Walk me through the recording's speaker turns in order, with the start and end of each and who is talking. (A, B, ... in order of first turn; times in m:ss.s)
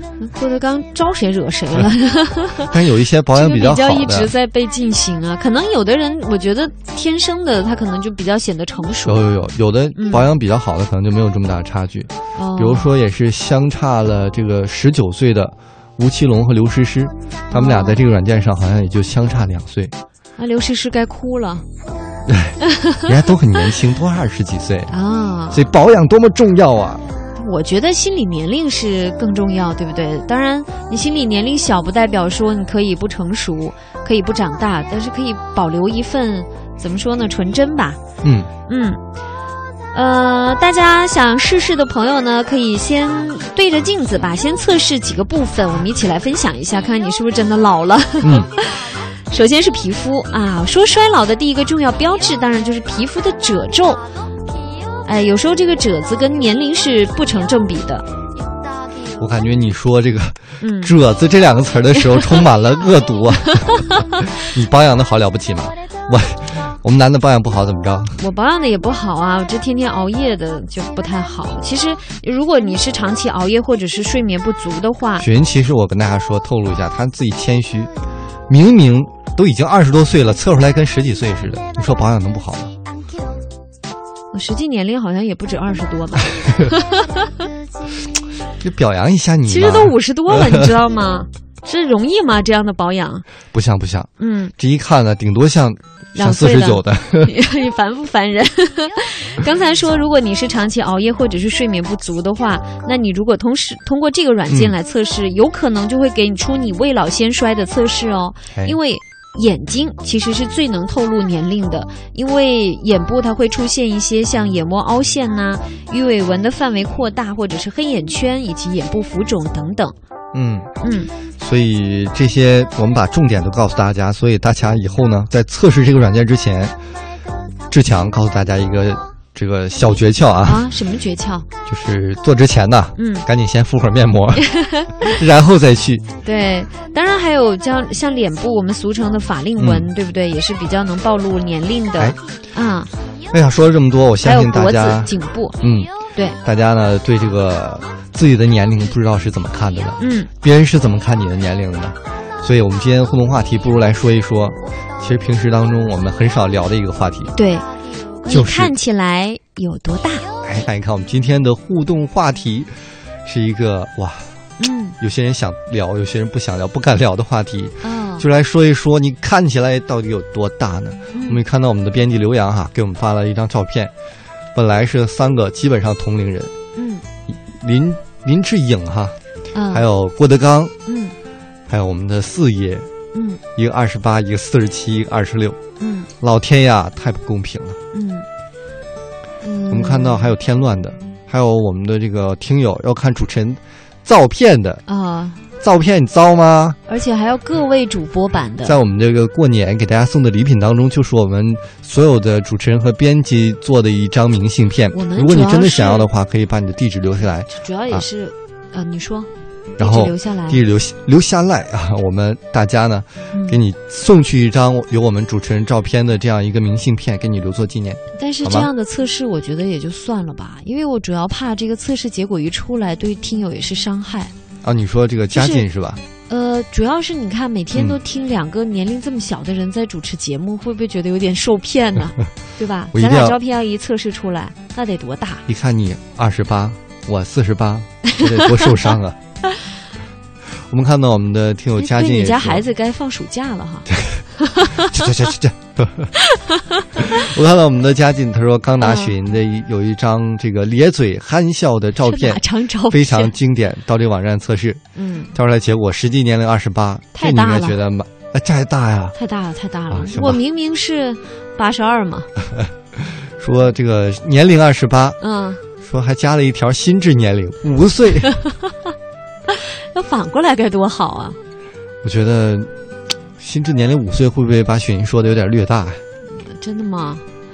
0:00.2-0:02.7 A
0:02.6-0:04.3 B
0:03.3-0:09.2 A
0:09.0-0:19.9 B
0:10.0-0:10.2 A
0:12.3-0:12.9 A
0:17.5-0:18.0 A
0:20.4-0:21.6 A
0:22.3-0:24.9 B
0:22.6-0:23.0 A
0:24.9-0:25.7 A
0:25.5-0:27.1 B
0:27.4-0:38.0 A
0:38.2-0:38.5 B
0:38.7-0:39.0 A
0:39.9-0:54.1 A
0:48.2-0:48.5 B
0:55.0-0:58.1 A
0:59.2-1:08.2 B
1:00.6-1:00.9 A
1:02.0-1:02.4 A
1:03.8-1:04.1 A
1:08.2-1:15.3 A
1:15.2-1:17.9 B
1:18.5-1:22.7 B
1:24.3-1:27.2 A
1:28.6-1:30.7 B
1:29.4-1:33.2 A
1:33.5-1:37.3 B
1:34.2-1:34.5 A
1:36.1-1:59.9 A
1:44.5-1:44.8 B
1:48.5-1:48.8 B
2:00.3-2:00.7 B
2:00.8-2:01.1 A
2:01.4-2:06.7 B
2:07.7-2:10.6 B
2:10.4-2:11.5 A
2:11.6-2:16.0 B
2:13.0-2:13.3 A
2:14.4-2:15.2 A
2:16.2-2:22.9 A
2:19.6-2:19.9 B
2:23.3-2:37.3 B
2:24.2-2:25.6 A
2:26.1-2:26.4 A
2:30.0-2:30.3 A
2:37.3-2:37.7 A
2:38.2-2:40.3 A
2:38.3-2:38.7 B
2:40.4-2:42.7 B
2:43.2-2:44.3 B
2:44.6-2:45.0 A
2:45.0-2:53.9 B
2:47.8-2:48.3 A
2:51.1-2:51.4 A
2:54.5-2:56.5 B
2:56.7-2:57.0 A
2:57.3-2:59.2 B
2:59.5-2:59.8 A
2:59.7-3:00.7 B
3:00.8-3:01.2 A
3:01.7-3:02.9 B
3:03.1-3:03.4 A
3:03.6-3:05.6 B
3:05.8-3:06.1 A
3:06.2-3:07.8 B
3:07.9-3:08.2 A
3:09.4-3:10.3 A
3:09.7-3:14.8 B
3:14.8-3:15.4 A
3:15.6-3:16.8 B
3:16.9-3:18.8 A
3:18.6-3:28.1 B
3:24.9-3:26.1 A
3:27.5-3:30.6 A
3:29.8-3:38.7 B
3:33.3-3:33.6 A
3:38.2-3:44.3 A
3:44.6-3:46.0 B
3:45.3-3:45.6 A
3:46.3-3:55.4 A
3:52.9-3:53.4 B
3:55.5-3:59.2 B
3:58.1-3:58.8 A
4:00.7-4:02.6 B
4:01.8-4:05.0 A
4:03.9-4:04.2 B
4:04.7-4:06.1 B
4:06.2-4:07.3 A
4:07.0-4:14.8 B
4:08.8-4:09.2 A
4:12.0-4:13.3 A
4:14.9-4:15.3 A
4:15.3-4:19.2 B
4:17.1-4:17.8 A
4:19.1-4:22.3 A
4:19.9-4:20.4 B
4:23.2-4:25.2 B
4:25.2-4:25.6 A
4:25.8-4:28.3 B
4:28.2-4:28.8 A
4:29.5-4:31.4 A
4:32.0-4:32.7 B
4:33.4-4:36.0 B
4:36.3-4:37.2 A